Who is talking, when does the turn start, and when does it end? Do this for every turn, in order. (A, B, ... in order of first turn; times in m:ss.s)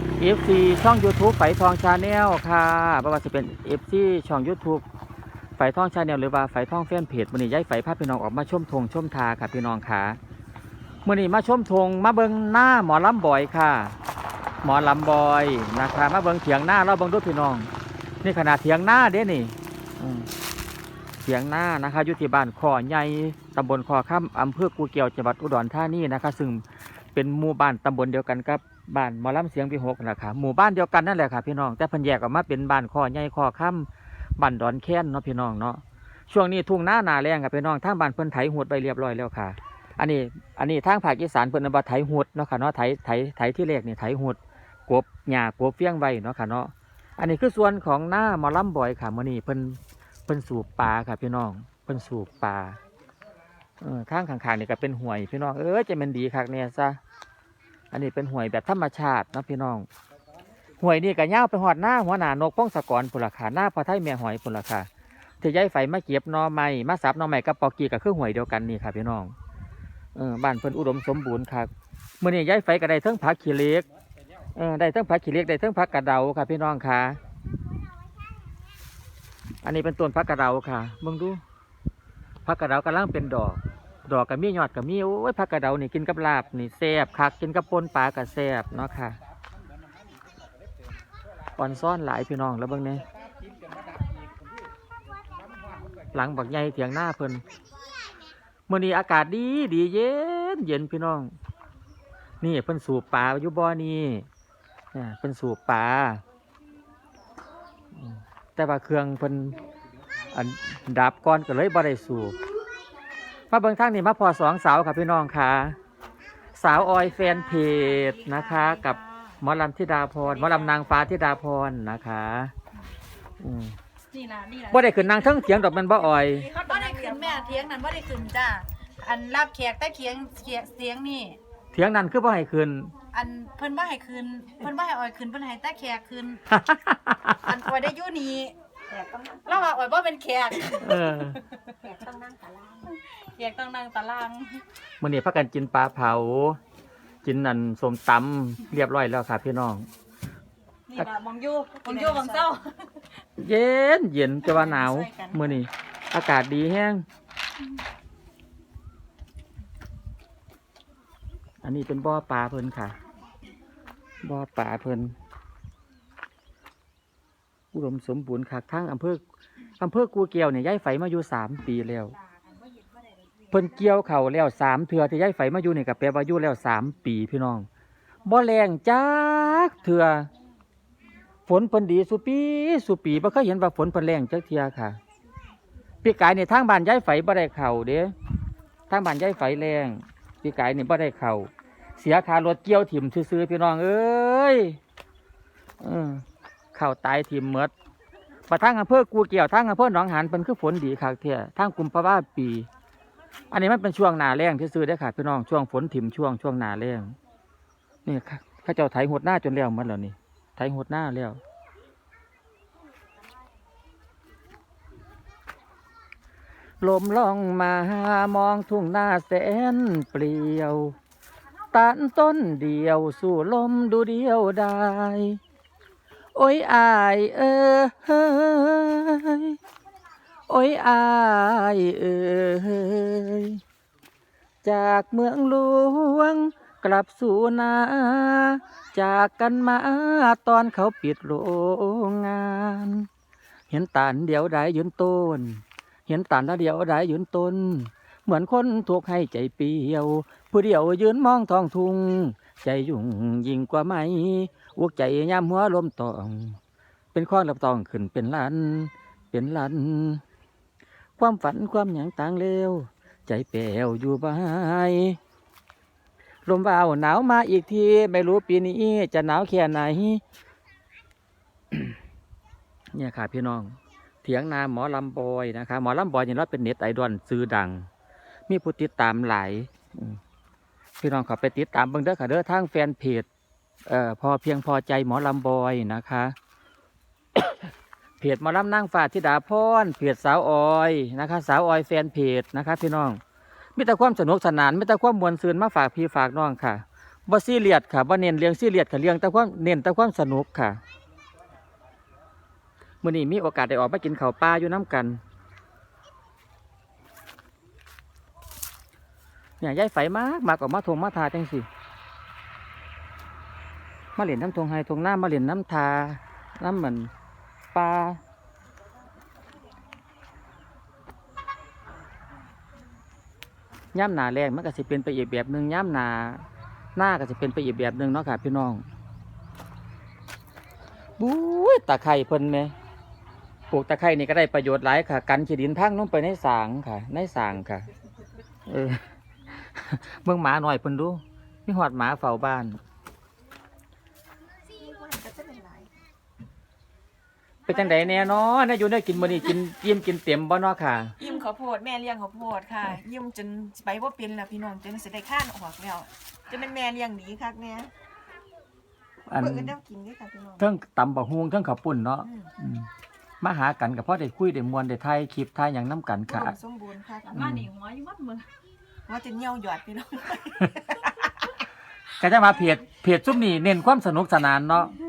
0:00.2-0:04.8 A
0:05.6-0:10.2 A
0:11.0-0:14.0 A
0:14.6-0:17.7 A
0:18.2-0:20.3 A
0:21.2-0:52.8 A
0:53.8-0:57.0 A
0:57.9-0:59.9 A
1:00.8-1:04.9 A
1:05.4-1:09.3 A
1:10.2-1:13.9 A
1:14.6-1:17.2 A
1:19.6-1:21.4 A
1:22.4-1:29.2 A
1:31.6-1:33.0 A
1:36.1-1:37.4 A
1:38.7-1:41.4 A
1:42.4-1:44.3 A
1:44.9-1:46.2 A
1:48.0-1:49.6 A
1:50.3-1:52.4 A
1:53.5-1:55.8 A
1:56.6-2:02.5 A
1:56.7-1:59.4 B
2:00.2-2:00.8 B
2:03.4-2:03.8 A
2:04.1-2:05.8 B
2:04.7-2:06.5 A
2:06.3-2:07.8 C
2:06.3-2:11.4 B
2:11.7-2:12.9 A
2:13.1-2:16.4 B
2:16.5-2:17.4 A
2:17.4-2:18.5 B
2:18.9-2:19.8 C
2:19.5-2:21.2 B
2:20.8-2:21.4 A
2:21.8-2:22.9 C
2:23.0-2:24.6 B
2:25.0-2:26.6 A
2:27.2-2:29.9 A
2:30.9-2:32.7 B
2:31.8-2:32.5 C
2:33.4-2:37.0 A
2:34.5-2:35.6 C
2:41.6-2:43.0 A
2:44.2-2:45.2 A
2:47.7-2:49.2 A
2:49.8-2:52.2 A
2:52.3-2:53.9 B
2:53.5-2:57.7 A
2:58.2-3:00.3 A
3:01.5-3:05.0 A
3:06.0-3:08.2 A
3:08.9-3:14.8 A
3:15.8-3:17.7 A
3:18.5-3:22.7 A
3:23.5-3:27.2 A
3:28.0-3:31.4 A
3:36.8-3:41.0 A
3:41.7-3:45.4 A
3:46.4-3:49.6 A
3:50.5-3:53.6 A
3:54.6-4:03.1 A
4:03.7-4:16.6 A
4:17.1-4:20.2 A
4:21.2-4:25.2 A
4:26.5-4:30.2 A
4:32.9-4:37.9 A
4:38.5-4:40.2 A
4:41.0-4:43.3 A
4:43.9-4:46.3 A
4:48.2-4:53.2 A
4:53.8-5:00.8 A
5:03.0-5:05.2 A
5:09.6-5:11.7 A
5:14.2-5:17.1 A
5:17.7-5:18.2 A
5:23.9-5:26.4 A
5:27.0-5:28.9 A
5:31.2-5:32.7 A
5:33.7-5:37.9 A
5:38.7-5:42.8 A
5:44.7-5:45.9 C
5:47.7-5:51.1 A
5:47.7-5:48.4 C
5:51.2-5:57.9 C
5:59.3-5:59.7 A
5:59.4-6:00.6 C
6:00.6-6:02.9 A
6:02.2-6:02.5 C
6:03.4-6:06.5 A
6:06.3-6:07.4 C
6:07.2-6:08.5 B
6:07.4-6:07.7 A
6:09.1-6:11.3 C
6:12.2-6:14.9 A